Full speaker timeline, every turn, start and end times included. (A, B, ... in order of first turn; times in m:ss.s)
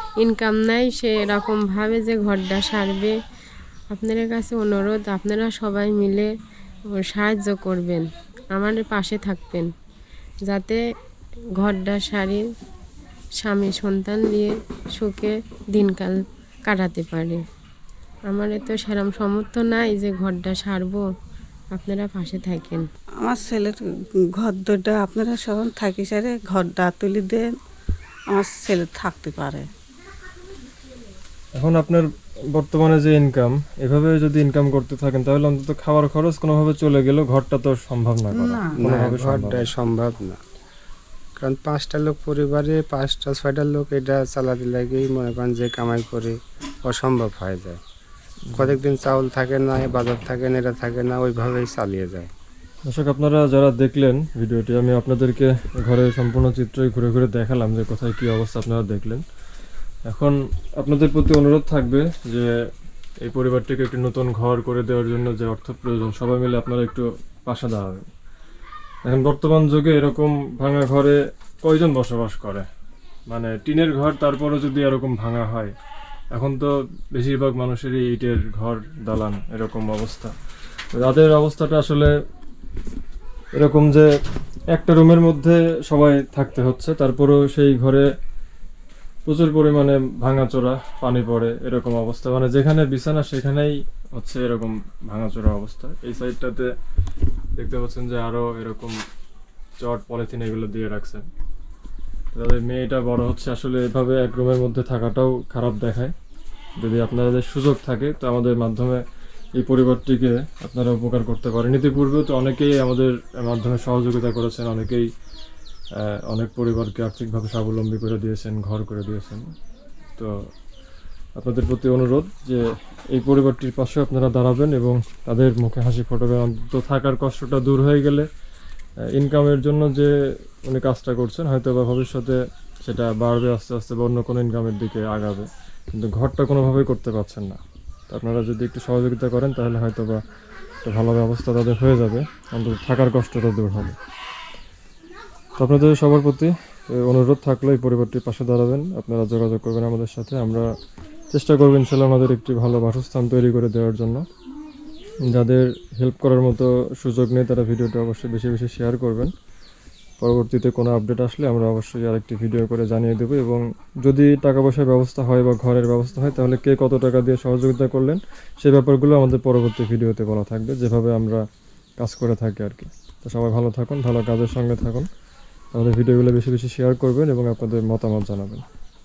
0:00.2-0:03.1 A
0:03.9-0:06.3 A
0:06.9-0:09.7 A
0:10.5-0:10.8 A
0:11.6-0:12.4 A
0:13.4-0:17.4 A
0:18.3-0:21.0 A
0:21.7-0:22.8 A
0:23.2-0:27.6 B
0:28.3-0:29.7 B
0:31.6-0:39.7 C
0:38.3-0:38.8 B
0:38.8-0:40.4 D
0:41.4-0:47.8 D
0:48.5-0:48.8 C
0:48.5-0:52.3 D
0:52.8-0:59.2 C
1:00.1-1:02.5 C
1:03.2-1:08.1 C
1:09.0-1:12.7 C
1:13.3-1:15.7 C
1:16.3-1:20.3 C
1:20.9-1:22.1 C
1:23.5-1:24.1 C
1:24.7-1:28.0 C
1:29.2-1:36.7 C
1:37.6-1:39.0 C
1:39.8-1:41.2 C
1:42.3-1:46.1 C
1:46.8-1:49.0 C
1:49.6-1:55.1 C
1:56.0-1:59.5 C
2:01.4-2:08.3 C
2:09.1-2:10.1 C
2:10.6-2:20.2 C
2:20.8-2:24.0 C
2:25.6-2:30.7 C
2:31.3-2:34.2 C
2:35.3-2:39.3 C
2:40.2-2:51.4 C
2:52.0-2:55.1 C
2:55.7-2:58.6 C